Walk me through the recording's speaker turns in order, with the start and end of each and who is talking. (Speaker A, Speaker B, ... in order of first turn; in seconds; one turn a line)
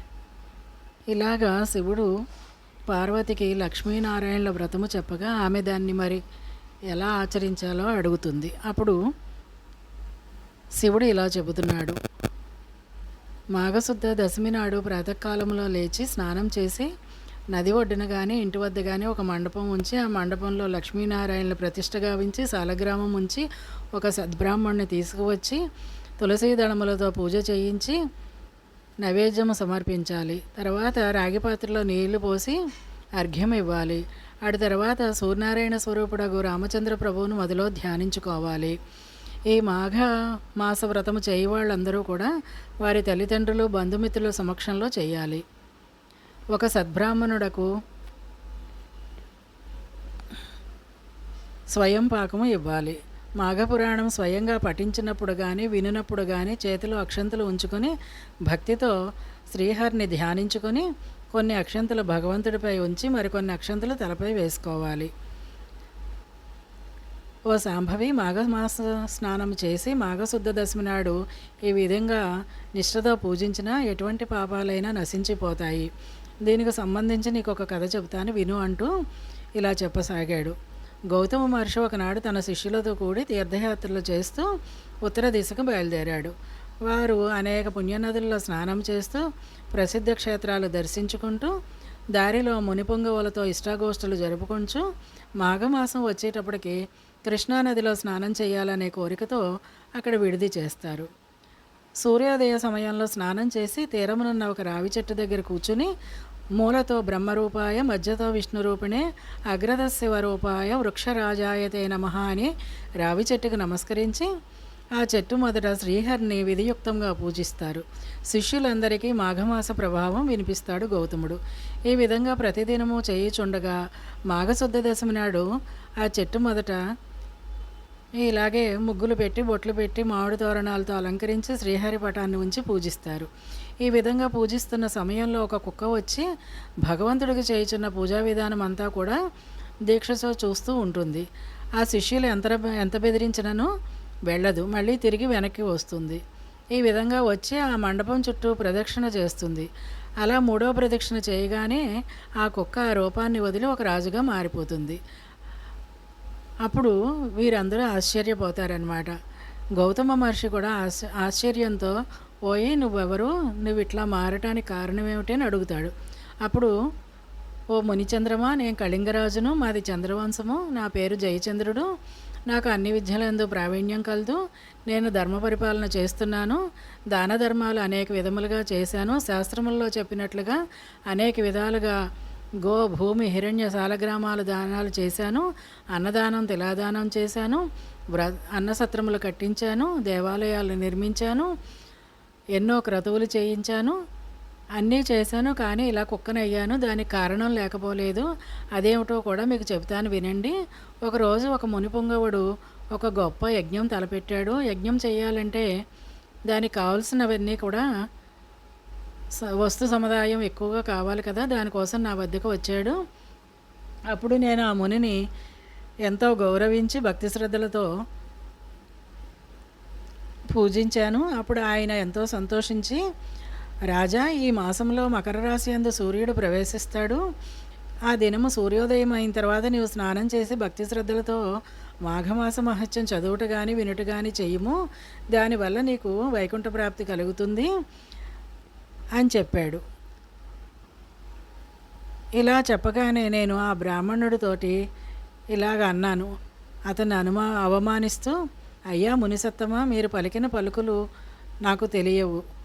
Speaker A: 1.1-2.1
Speaker A: 2.9-6.2
Speaker A: 6.9-9.0
Speaker A: 10.8-12.0
Speaker A: 13.6-16.9
Speaker A: 17.5-23.4
Speaker A: 24.0-25.6
Speaker A: 26.2-28.0
Speaker A: 29.0-32.6
Speaker A: 33.2-38.8
Speaker A: 39.5-42.3
Speaker A: 42.8-45.4
Speaker A: 46.5-47.7
Speaker A: 51.8-57.9
Speaker A: 58.5-58.9
Speaker A: 59.5-65.1
Speaker A: 67.5-72.2
Speaker A: 72.8-75.9
Speaker A: 76.5-78.9
Speaker A: 79.6-80.6
Speaker A: 81.1-84.5
Speaker A: 85.0-86.3
Speaker A: 86.9-91.5
Speaker A: 92.2-94.8
Speaker A: 95.4-99.4
Speaker A: 100.0-101.1
Speaker A: 102.0-105.9
Speaker A: 106.6-114.3
Speaker A: 115.0-123.8
Speaker A: 124.3-125.5
Speaker A: 126.0-126.8
Speaker A: 128.2-133.3
Speaker A: 133.8-136.3
Speaker A: 136.9-139.2
Speaker A: 139.9-141.3
Speaker A: 141.8-143.7
Speaker A: 144.3-146.2
Speaker A: 146.8-149.7
Speaker A: 150.2-151.8
Speaker A: 152.4-155.0
Speaker A: 156.7-159.2
Speaker A: 159.8-165.9
Speaker A: 166.5-166.7
Speaker A: 167.8-171.9
Speaker A: 172.5-176.6
Speaker A: 177.1-180.6
Speaker A: 181.1-182.0
Speaker A: 182.6-187.6
Speaker A: 188.1-191.5
Speaker A: 192.6-194.0
Speaker A: 194.8-202.4
Speaker A: 202.9-205.7
Speaker A: 206.5-207.8
Speaker A: 209.6-213.0
Speaker A: 214.1-215.2
Speaker A: 216.1-217.9
Speaker A: 220.5-223.0
Speaker A: 223.9-227.2
Speaker A: 228.1-231.4
Speaker A: 232.1-234.8
Speaker A: 235.3-237.7
Speaker A: 239.2-239.8
Speaker A: 242.4-244.8
Speaker A: 245.5-246.3
Speaker A: 246.9-248.4
Speaker A: 248.9-251.0
Speaker A: 251.7-252.4